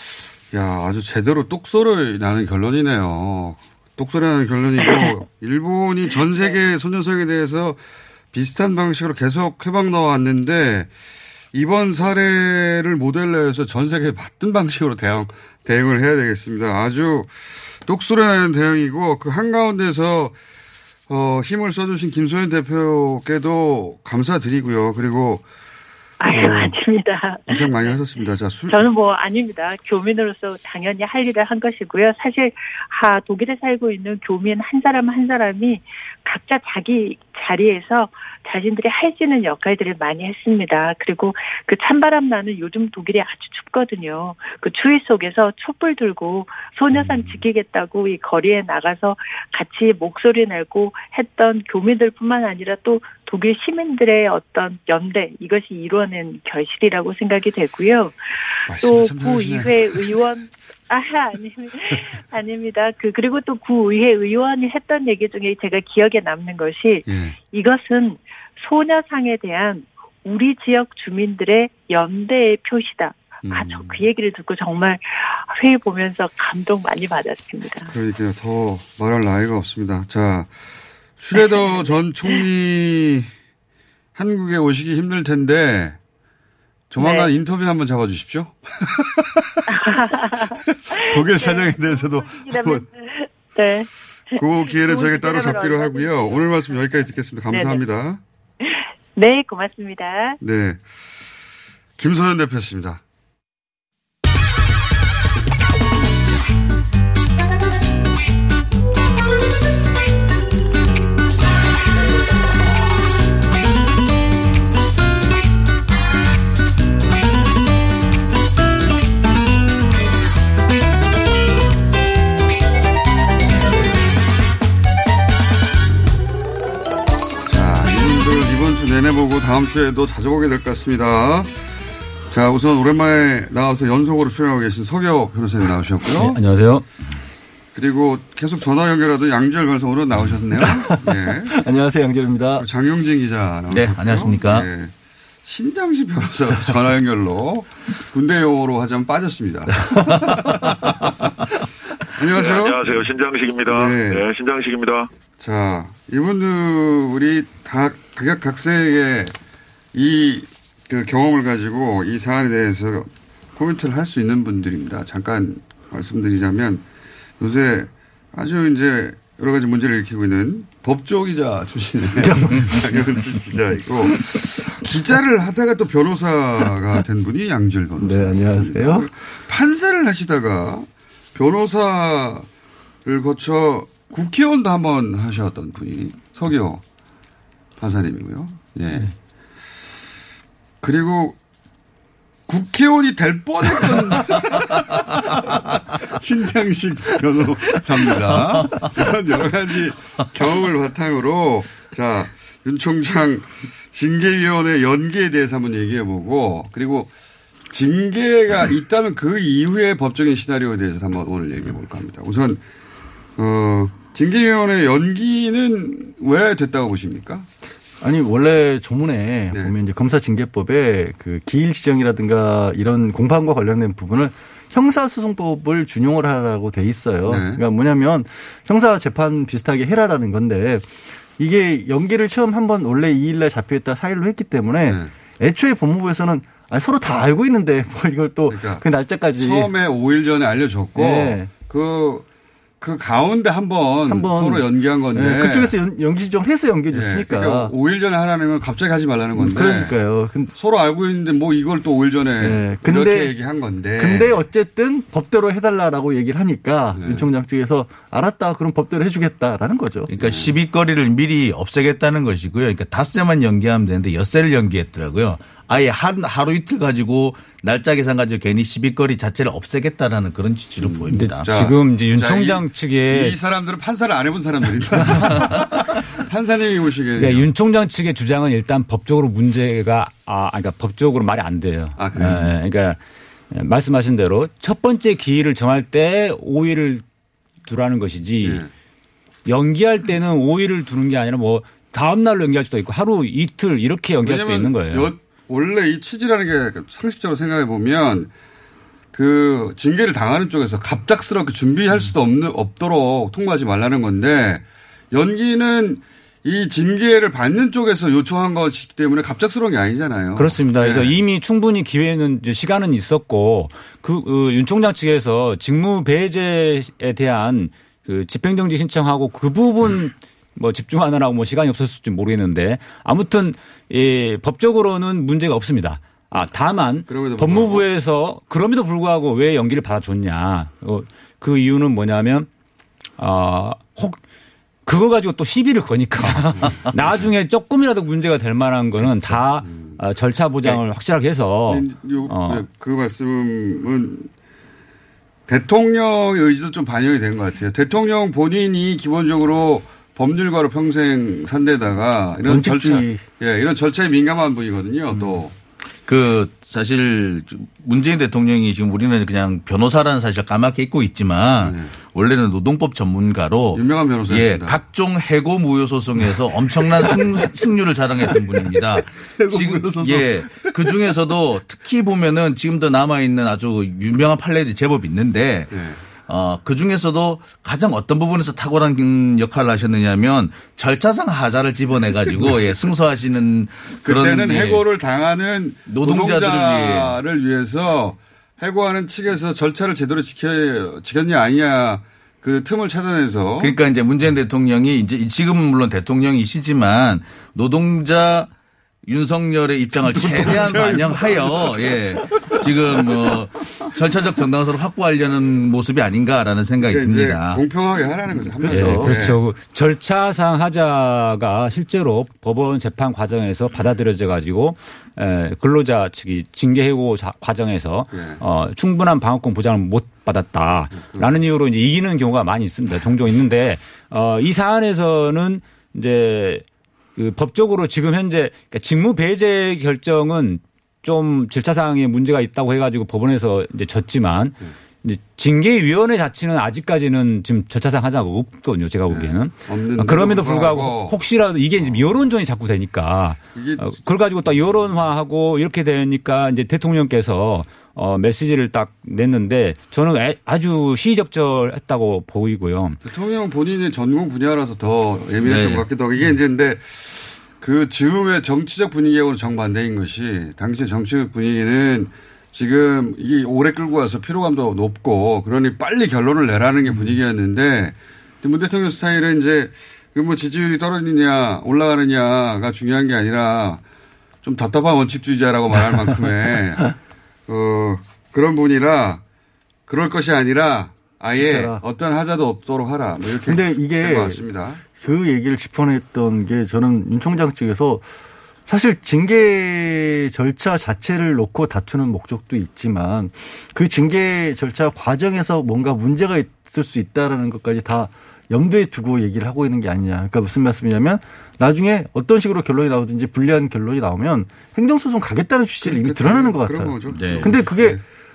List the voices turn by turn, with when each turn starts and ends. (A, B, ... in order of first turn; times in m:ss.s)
0:00.5-0:07.8 A
0:08.3-0:10.9 A
0:11.5-0:20.4 A
0:21.1-0:25.4 A
0:26.2-0:28.0 B
0:26.3-0:26.8 A
0:27.5-0:28.9 A
0:28.7-1:17.9 B
0:46.9-0:47.4 A
0:58.7-1:00.2 A
1:07.1-1:07.4 A
1:13.4-1:14.1 A
1:17.9-1:20.5 A
1:21.2-1:23.3 A
1:21.3-1:22.4 B
1:24.2-1:26.0 A
1:26.9-1:29.6 A
1:27.0-1:27.3 B
1:29.7-1:36.8 B
1:30.7-1:32.9 A
1:34.4-1:38.2 A
1:37.5-1:37.8 B
1:38.6-1:40.4 B
1:40.4-1:40.8 A
1:42.0-1:43.0 A
2:07.4-2:11.5 A
2:12.3-2:16.4 A
2:16.1-2:16.9 C
2:17.7-2:21.5 A
2:20.6-2:22.7 D
2:22.6-2:24.9 A
2:23.7-2:24.7 E
2:25.4-2:30.7 A
2:32.1-2:33.0 A
2:32.3-2:35.1 F
2:33.7-2:34.3 A
2:35.4-2:39.3 A
2:39.9-2:46.8 A
2:47.4-3:02.5 A
2:52.2-2:53.3 D
2:54.0-2:54.5 D
2:58.0-2:59.1 D
3:03.0-3:06.8 A
3:07.8-3:09.1 A
3:10.8-3:11.4 A
3:12.5-3:15.1 A
3:16.0-3:27.1 A
3:27.7-3:32.6 A
3:33.4-3:37.5 A
3:38.0-3:59.7 D
3:47.2-3:47.6 A
3:58.5-3:58.8 A
3:59.4-4:02.3 A
4:01.0-4:01.5 D
4:02.8-4:05.8 A
4:04.1-4:07.7 D
4:06.9-4:10.0 A
4:09.4-4:10.5 D
4:10.6-4:14.4 A
4:12.4-4:13.4 D
4:14.0-4:20.1 D
4:17.0-4:17.3 A
4:20.1-4:31.5 E
4:20.2-4:20.6 A
4:30.8-4:37.5 A
4:31.1-4:33.4 C
4:37.2-4:43.0 C
4:42.0-4:42.5 A
4:43.5-4:47.0 C
4:47.6-4:48.6 C
4:48.4-4:48.7 A
4:49.5-4:55.1 C
4:54.2-4:58.3 A
4:59.1-5:11.1 A
5:10.4-5:32.5 C
5:27.1-5:27.9 A
5:33.2-5:34.2 C
5:34.9-5:42.6 C
5:36.2-5:37.3 A
5:39.2-5:40.0 A
5:41.7-5:44.3 A
5:45.5-5:55.6 A
5:52.4-5:53.2 D
5:56.0-6:24.8 E
6:01.6-6:01.9 A
6:03.7-6:04.8 A
6:09.4-6:10.7 A
6:15.7-6:16.0 A
6:22.4-6:22.8 A
6:24.0-6:33.8 A
6:25.9-6:27.2 E
6:33.6-6:38.5 E
6:39.1-6:47.6 E
6:40.0-6:42.9 A
6:46.8-6:49.4 A
6:48.3-6:49.1 D
6:48.7-7:06.6 C
6:58.1-6:58.4 A
7:00.9-7:01.4 A
7:07.2-7:33.0 C
7:19.1-7:21.2 A
7:21.8-7:22.0 A
7:23.5-7:24.9 A
7:33.0-7:53.8 A
7:35.4-7:35.9 E
7:54.4-7:56.8 A
7:57.5-7:59.2 A
7:59.9-8:04.8 A
8:01.3-8:01.8 D
8:03.4-8:08.1 D
8:08.7-8:28.0 D
8:25.8-8:28.0 A
8:27.1-8:27.6 E